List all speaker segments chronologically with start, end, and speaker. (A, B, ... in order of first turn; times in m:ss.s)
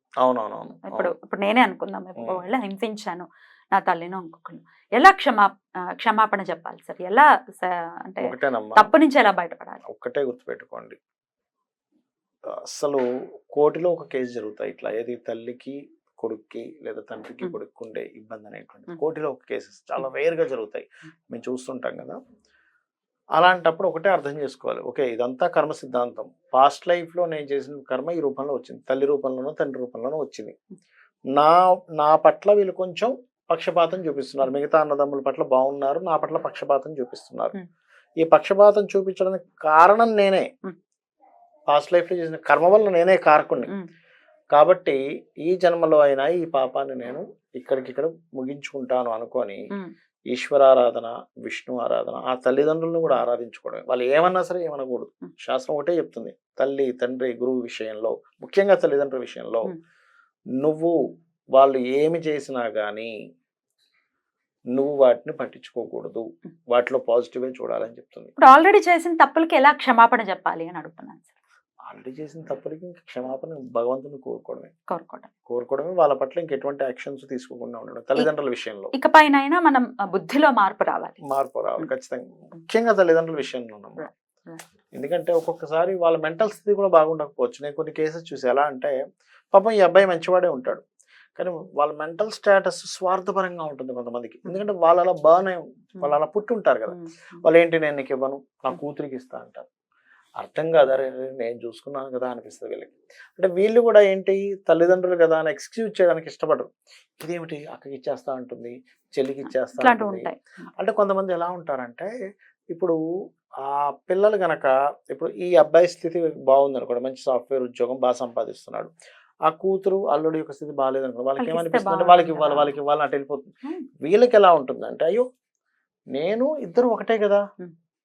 0:00.2-0:01.1 A
0:00.9-0:09.8 B
0:08.2-0:08.9 A
0:09.9-0:11.0 A
0:12.7-0:22.2 A
0:23.4-0:30.5 A
0:31.3-0:37.6 A
0:38.2-0:40.5 A
0:41.7-0:43.7 A
0:44.5-0:49.6 A
0:50.3-0:59.7 A
1:00.6-1:00.9 A
1:01.6-1:03.1 A
1:04.7-1:08.3 A
1:08.4-1:11.3 B
1:11.9-1:14.7 A
1:14.9-1:15.3 B
1:15.5-1:18.9 A
1:18.9-1:21.2 B
1:21.3-1:24.1 A
1:24.0-1:24.6 B
1:24.9-1:29.0 A
1:29.5-1:30.8 A
1:31.4-1:39.6 A
1:36.9-1:37.4 B
1:40.4-1:52.1 A
1:49.5-1:50.4 B
1:52.7-1:53.0 A
1:53.6-1:58.9 A
1:59.5-2:03.5 A
2:01.4-2:02.8 B
2:04.1-2:05.3 A
2:06.1-2:07.4 A